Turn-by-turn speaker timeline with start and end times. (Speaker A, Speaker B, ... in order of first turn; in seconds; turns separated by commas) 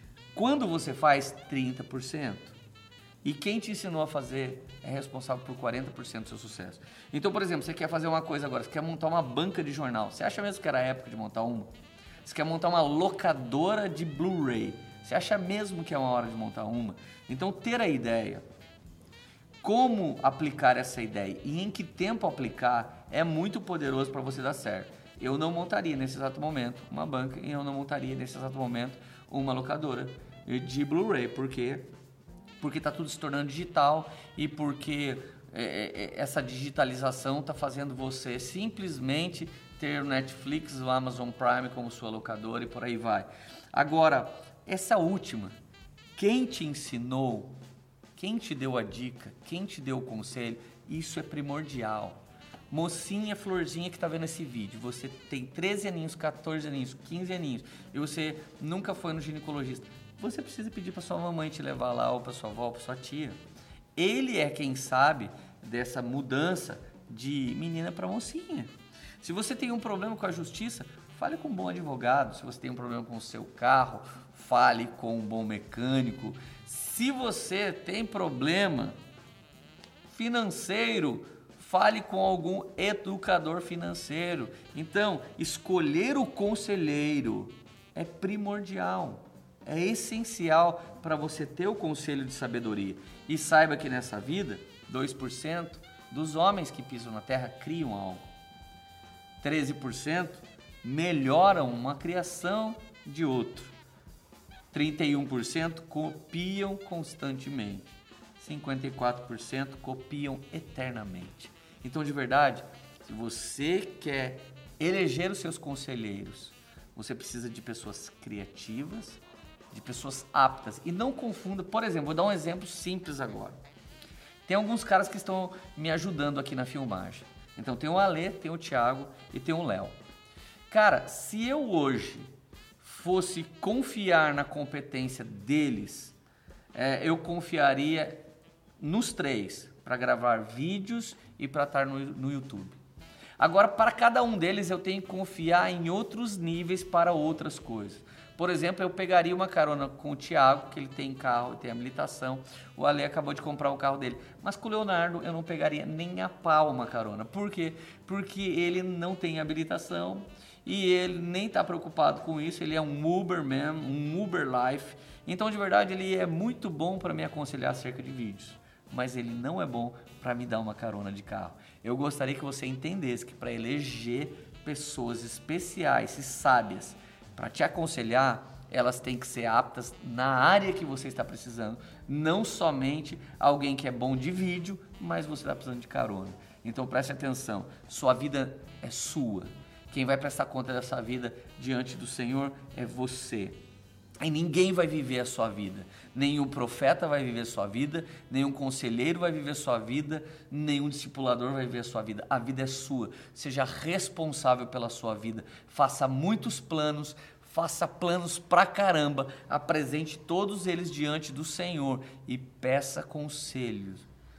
Speaker A: 0.3-2.6, Speaker A: 3.2-11.7, Speaker A: 12.2-18.4, Speaker A: 19.6-31.9, Speaker A: 32.6-45.5, Speaker A: 46.1-47.5, Speaker A: 48.1-63.4, Speaker A: 64.0-79.0, Speaker A: 80.1-98.3, Speaker A: 99.4-103.7, Speaker A: 104.7-119.2, Speaker A: 119.7-123.6, Speaker A: 124.4-130.0, Speaker A: 130.7-136.2, Speaker A: 136.7-138.2, Speaker A: 138.8-142.8, Speaker A: 143.4-193.6, Speaker A: 194.2-214.1